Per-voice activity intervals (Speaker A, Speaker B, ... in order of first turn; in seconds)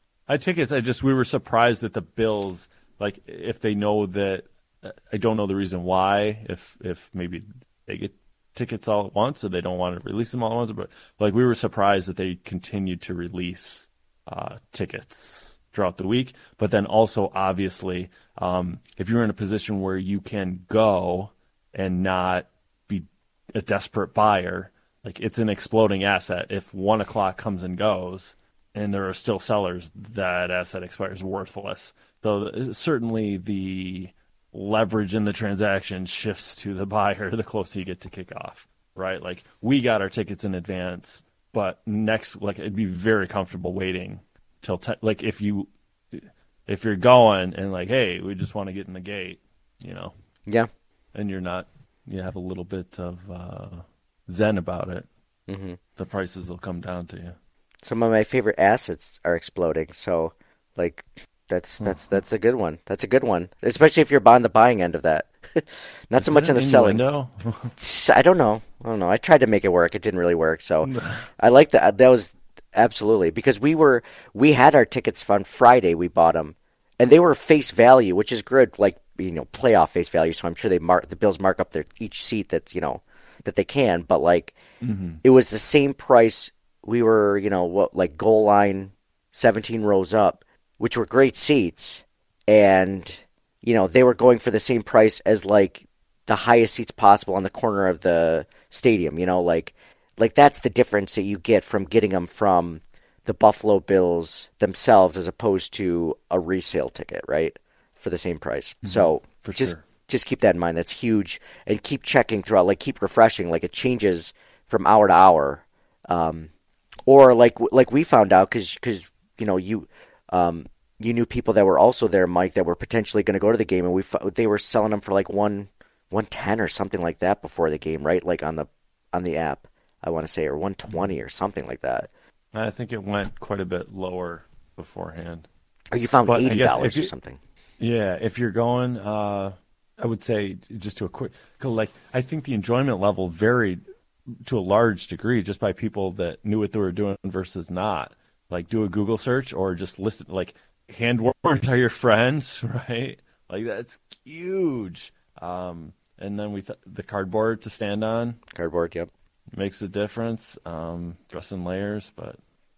Speaker A: 0.3-50.1, 51.1-55.0, 56.0-57.4, 61.8-62.2, 66.2-67.7, 70.8-71.2, 84.8-85.2, 108.8-109.8, 132.5-135.4, 136.3-137.1, 137.8-143.8, 144.4-158.4, 159.5-162.4
Speaker B: 55.5-55.8, 57.8-67.0, 67.8-84.5, 85.2-116.5, 117.1-132.1, 135.9-137.4, 158.5-159.1